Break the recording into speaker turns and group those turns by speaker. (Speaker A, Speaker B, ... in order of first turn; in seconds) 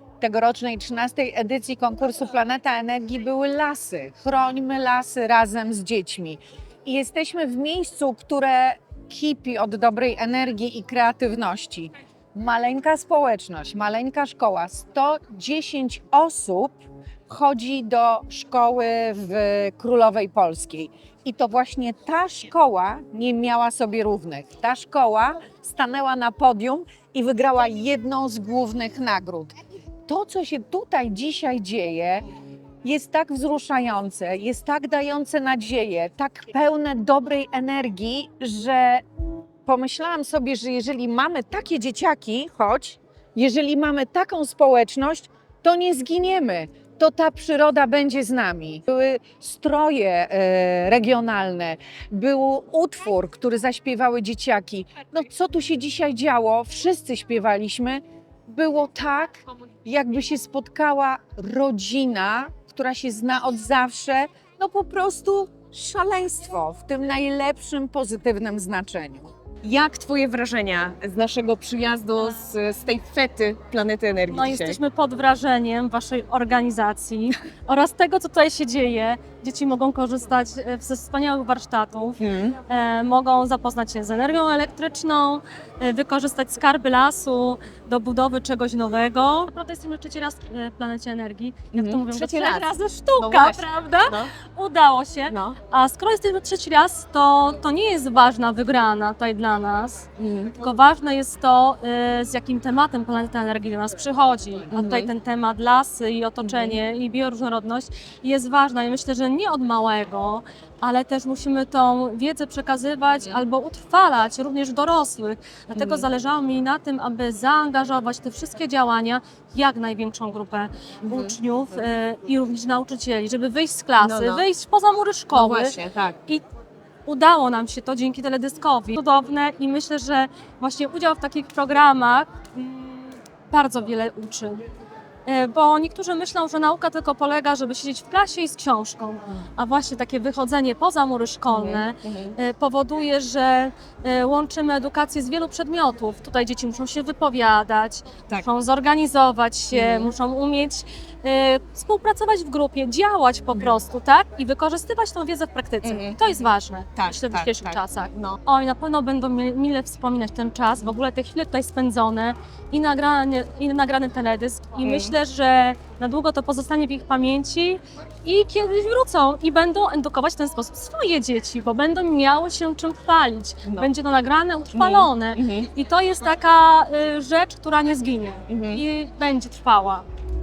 Speaker A: 0.2-29.6, 30.1-32.2, 32.8-39.0, 39.7-69.3
Speaker B: 69.6-74.8, 82.2-82.6, 91.7-94.3, 95.3-95.6, 100.2-100.6, 104.7-105.1, 106.4-106.8, 115.8-116.1, 121.1-121.4, 124.0-124.5, 125.3-126.2, 141.5-142.4, 149.7-150.1, 155.8-158.4, 164.8-165.2, 174.7-175.7, 178.5-178.8
Speaker C: 74.3-100.1, 100.6-126.4, 127.1-134.6, 135.3-180.1